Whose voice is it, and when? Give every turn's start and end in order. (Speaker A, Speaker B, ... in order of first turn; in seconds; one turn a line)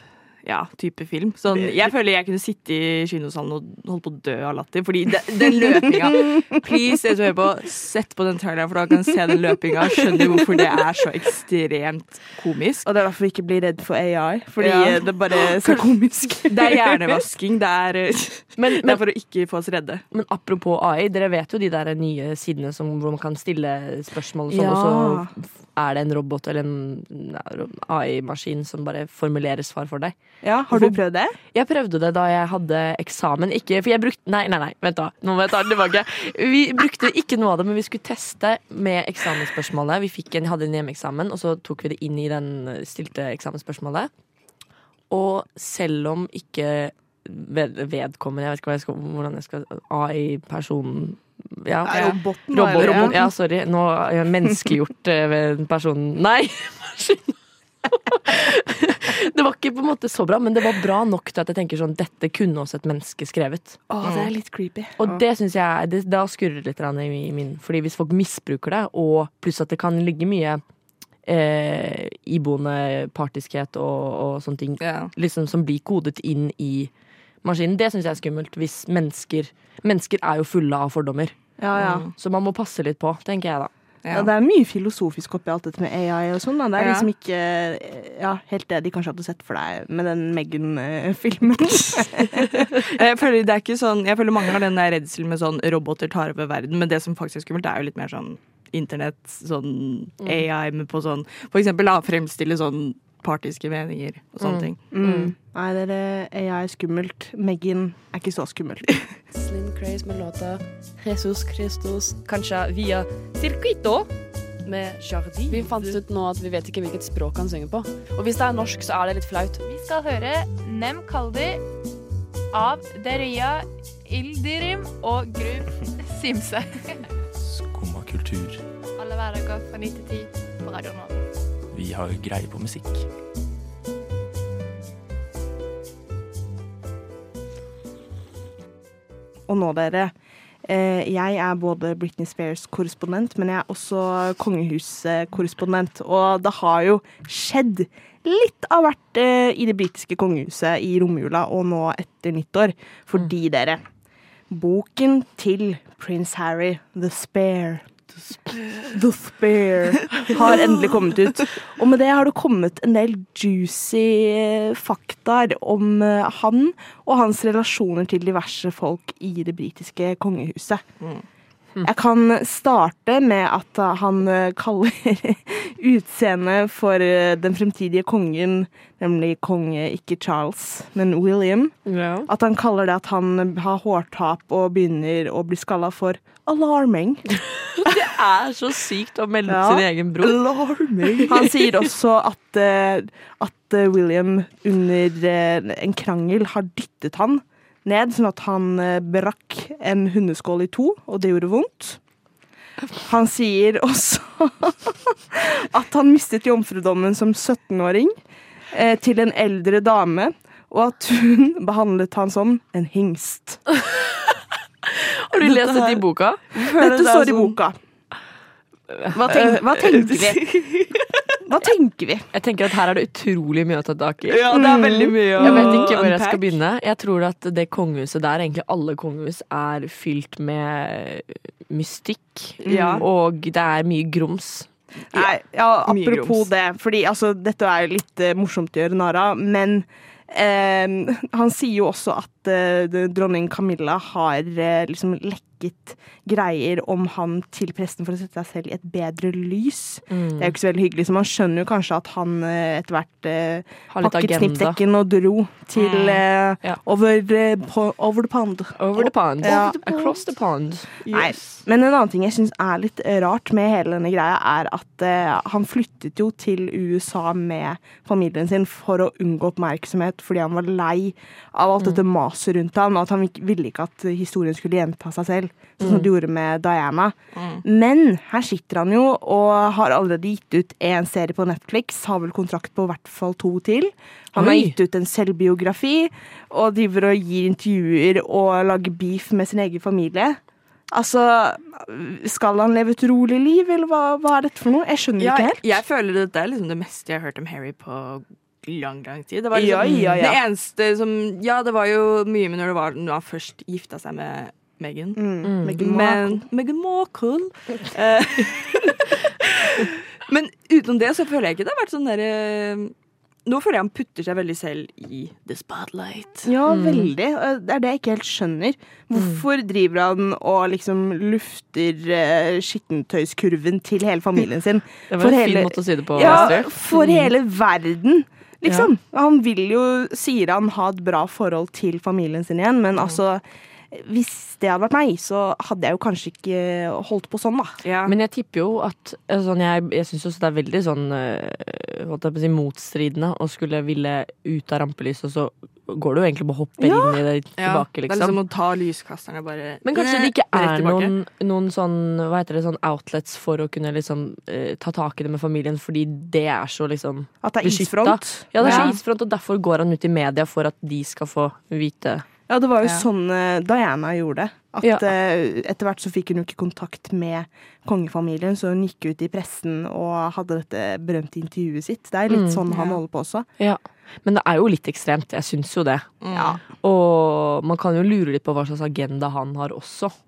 Speaker A: 0.4-12.9
Speaker B: 12.9-17.0
Speaker A: 14.6-15.9
Speaker A: 16.5-20.0
Speaker C: 18.6-19.0
Speaker C: 20.1-30.1
Speaker B: 24.5-25.3
Speaker B: 30.4-31.4
Speaker C: 31.5-44.1
Speaker C: 45.1-57.4
Speaker B: 51.9-53.2
Speaker A: 51.9-52.2
Speaker A: 52.8-53.2
Speaker C: 57.9-63.9
Speaker B: 63.9-65.2
Speaker A: 64.0-64.3
Speaker C: 65.0-70.6
Speaker C: 71.3-76.9
Speaker A: 74.8-75.1
Speaker C: 77.4-81.4
Speaker B: 81.6-82.1
Speaker A: 81.8-82.1
Speaker C: 82.2-83.7
Speaker A: 84.0-84.3
Speaker B: 84.1-92.7
Speaker A: 86.8-87.1
Speaker A: 92.0-104.8
Speaker C: 104.4-105.3
Speaker B: 104.9-109.1
Speaker D: 109.3-114.1
Speaker D: 114.7-119.6
Speaker E: 119.7-121.6
Speaker E: 122.5-127.0
Speaker F: 127.4-128.6
Speaker E: 129.0-131.2
Speaker F: 131.7-133.1
Speaker B: 139.5-140.1
Speaker B: 140.7-153.8
Speaker B: 154.5-157.8
Speaker B: 158.8-170.8
Speaker A: 160.2-160.8
Speaker B: 171.8-187.3
Speaker C: 181.9-182.3
Speaker C: 187.8-190.4
Speaker B: 189.5-189.8
Speaker A: 190.2-191.5
Speaker B: 191.3-202.0
Speaker B: 203.0-208.1
Speaker B: 208.7-213.7
Speaker C: 214.9-216.5
Speaker B: 215.4-217.8
Speaker A: 216.7-217.6
Speaker B: 219.1-220.5
Speaker A: 219.3-221.2
Speaker B: 221.5-222.3
Speaker C: 222.3-224.5
Speaker A: 224.3-226.6
Speaker B: 224.5-225.8
Speaker C: 225.4-234.7
Speaker B: 232.6-233.1
Speaker A: 232.7-233.1
Speaker B: 235.1-260.2
Speaker A: 235.9-236.5
Speaker C: 250.1-250.5
Speaker C: 253.9-254.8
Speaker A: 255.8-256.2
Speaker C: 258.8-261.0
Speaker A: 261.1-261.4
Speaker B: 261.1-290.4
Speaker C: 275.8-276.1
Speaker A: 277.4-277.6
Speaker C: 284.4-284.7
Speaker B: 290.9-295.7
Speaker A: 295.2-305.2
Speaker B: 299.5-300.4
Speaker C: 299.9-300.2
Speaker B: 305.2-306.4
Speaker C: 305.4-305.8
Speaker A: 305.8-312.9
Speaker A: 313.5-316.5
Speaker B: 316.5-333.4
Speaker C: 316.7-317.1
Speaker C: 319.1-319.4
Speaker C: 325.1-327.3
Speaker A: 326.2-326.6
Speaker B: 333.9-337.8
Speaker A: 337.8-338.1
Speaker C: 338.1-348.4
Speaker B: 346.8-347.1
Speaker A: 347.6-351.1
Speaker C: 349.8-362.2
Speaker B: 357.4-358.9
Speaker A: 358.6-359.0
Speaker B: 362.5-373.5
Speaker C: 372.3-372.6
Speaker A: 372.7-373.0
Speaker C: 373.6-376.1
Speaker A: 376.2-376.6
Speaker B: 376.4-376.6
Speaker C: 376.8-380.1